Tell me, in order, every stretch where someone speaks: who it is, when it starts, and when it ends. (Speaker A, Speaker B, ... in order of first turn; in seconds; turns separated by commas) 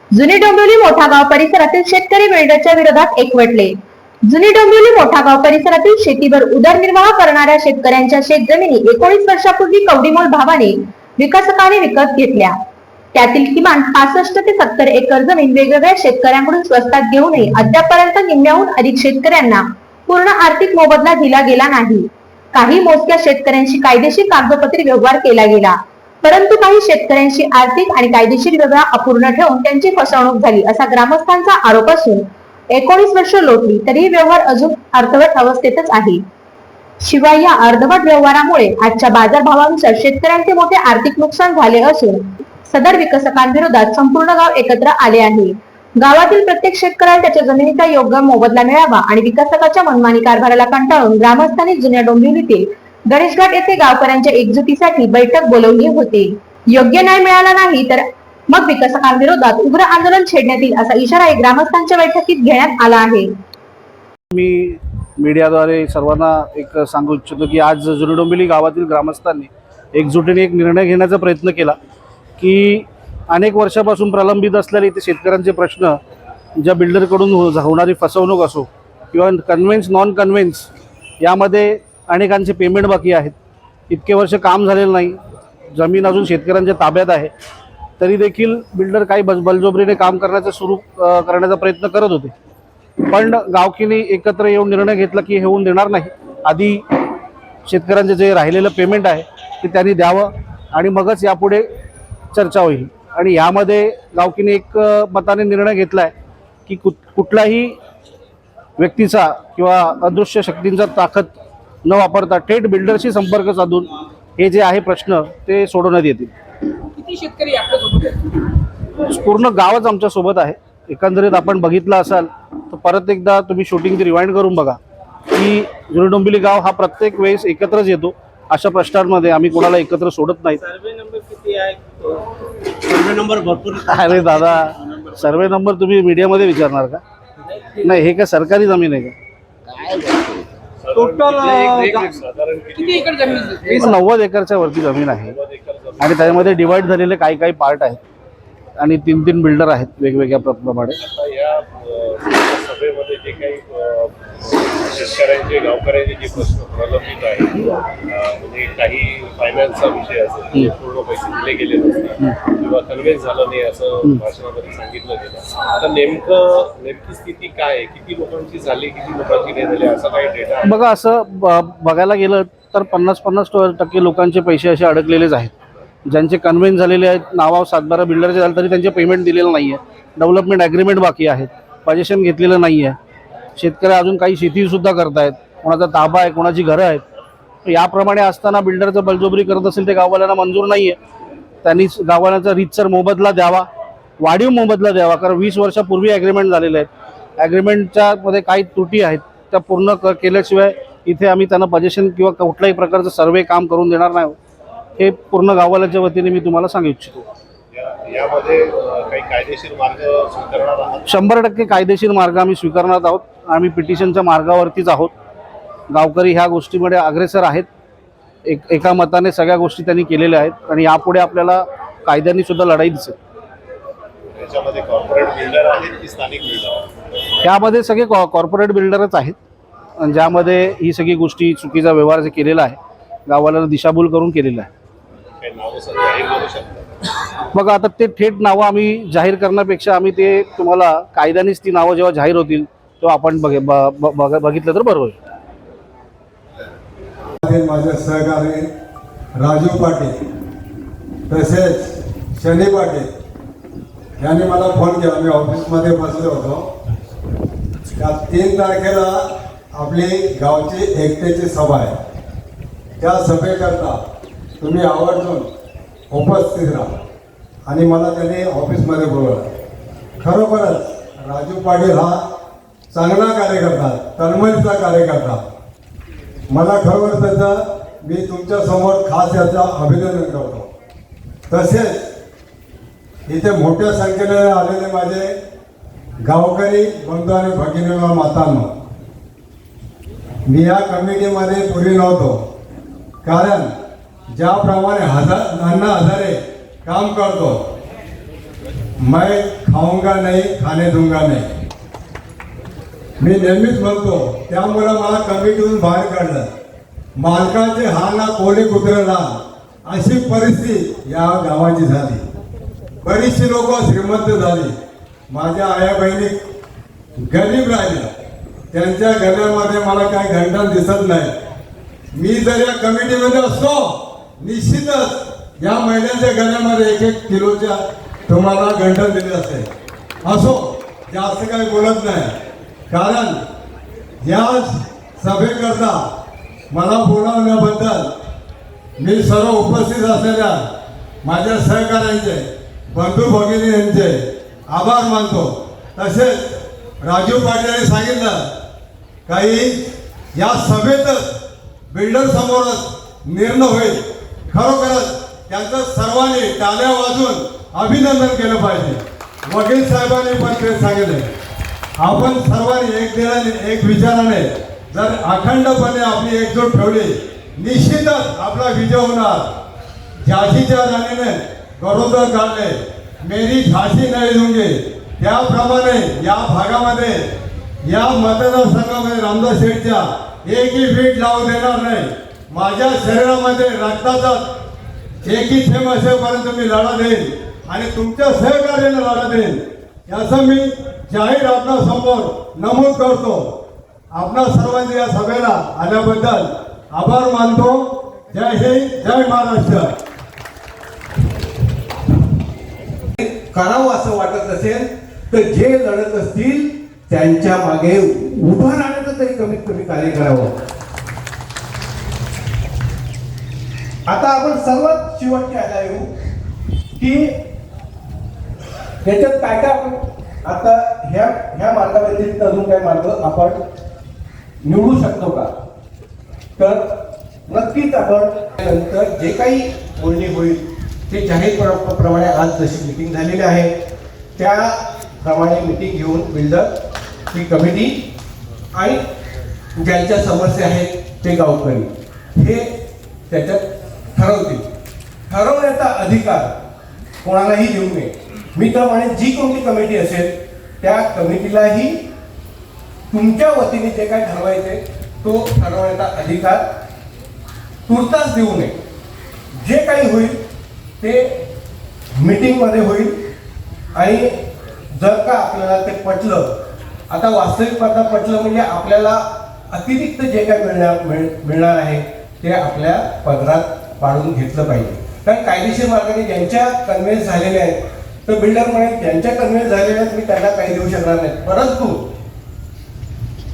Speaker A: 0.1-3.7, Speaker A: 4.3-12.6, Speaker A: 13.1-36.2, Speaker A: 37.0-63.3, Speaker B: 64.3-71.8, Speaker B: 72.4-76.0, Speaker B: 76.6-80.7, Speaker B: 81.2-83.3, Speaker B: 83.9-85.2, Speaker B: 85.7-87.3, Speaker B: 88.0-92.3, Speaker B: 93.0-96.8, Speaker B: 97.7-101.7, Speaker B: 102.3-106.1, Speaker B: 106.7-107.8, Speaker B: 108.8-116.3, Speaker C: 117.1-118.2, Speaker B: 119.0-124.8, Speaker B: 125.3-130.8, Speaker C: 130.9-131.7, Speaker B: 132.9-137.0, Speaker B: 137.8-139.1, Speaker B: 139.7-140.4, Speaker D: 140.8-143.7, Speaker B: 141.1-141.7, Speaker C: 141.8-142.1, Speaker C: 143.0-143.5, Speaker B: 143.6-145.4, Speaker D: 145.1-146.7, Speaker B: 146.0-148.0, Speaker B: 148.8-151.0, Speaker D: 151.0-170.8, Speaker B: 170.6-175.5, Speaker B: 176.1-183.0, Speaker B: 183.6-187.0, Speaker B: 187.7-191.0, Speaker B: 191.6-193.7, Speaker B: 194.2-204.4, Speaker B: 205.0-207.3, Speaker D: 207.7-211.1, Speaker B: 211.0-215.1, Speaker B: 215.9-217.7, Speaker B: 218.4-223.2, Speaker D: 224.3-226.8, Speaker B: 227.4-229.4, Speaker B: 230.0-234.7, Speaker D: 235.4-236.8, Speaker B: 237.5-245.2, Speaker E: 247.4-248.7, Speaker E: 249.3-250.1, Speaker E: 251.3-253.1, Speaker E: 254.2-256.7, Speaker E: 257.9-261.9, Speaker E: 263.0-264.0, Speaker E: 264.6-265.5, Speaker E: 266.1-267.0, Speaker E: 267.6-269.5, Speaker E: 270.2-272.2, Speaker E: 272.9-275.4, Speaker E: 276.5-280.7, Speaker E: 281.5-282.1, Speaker E: 283.3-285.4, Speaker E: 286.2-288.7, Speaker E: 290.4-292.4, Speaker E: 293.2-293.7, Speaker E: 294.3-297.6, Speaker E: 299.0-301.5, Speaker E: 303.2-306.5, Speaker E: 307.2-312.2, Speaker E: 313.0-314.7, Speaker E: 315.3-316.4, Speaker E: 317.2-318.1, Speaker E: 318.7-321.3, Speaker E: 322.1-329.7, Speaker E: 330.2-332.3, Speaker E: 332.9-333.4, Speaker E: 334.2-336.1, Speaker E: 336.7-338.1, Speaker E: 339.0-340.6, Speaker E: 341.2-348.5, Speaker E: 349.3-351.4, Speaker E: 351.9-361.3, Speaker E: 362.0-369.5, Speaker E: 370.2-377.3, Speaker E: 377.8-384.5, Speaker E: 385.2-393.5, Speaker E: 394.1-399.9, Speaker F: 403.2-410.5, Speaker F: 414.1-416.1, Speaker F: 417.0-417.3, Speaker F: 419.0-423.6, Speaker F: 424.6-425.5, Speaker F: 426.6-426.9, Speaker F: 427.5-433.7, Speaker F: 434.4-436.8, Speaker F: 437.3-438.0, Speaker F: 438.7-439.0, Speaker F: 439.8-442.6, Speaker F: 443.3-443.6, Speaker F: 444.1-444.6, Speaker F: 445.3-446.5, Speaker F: 447.2-452.0, Speaker F: 453.1-456.6, Speaker F: 457.9-458.8, Speaker F: 459.6-460.4, Speaker F: 461.0-461.3, Speaker F: 462.1-463.1, Speaker F: 463.9-464.3, Speaker F: 464.9-466.5, Speaker F: 467.1-482.0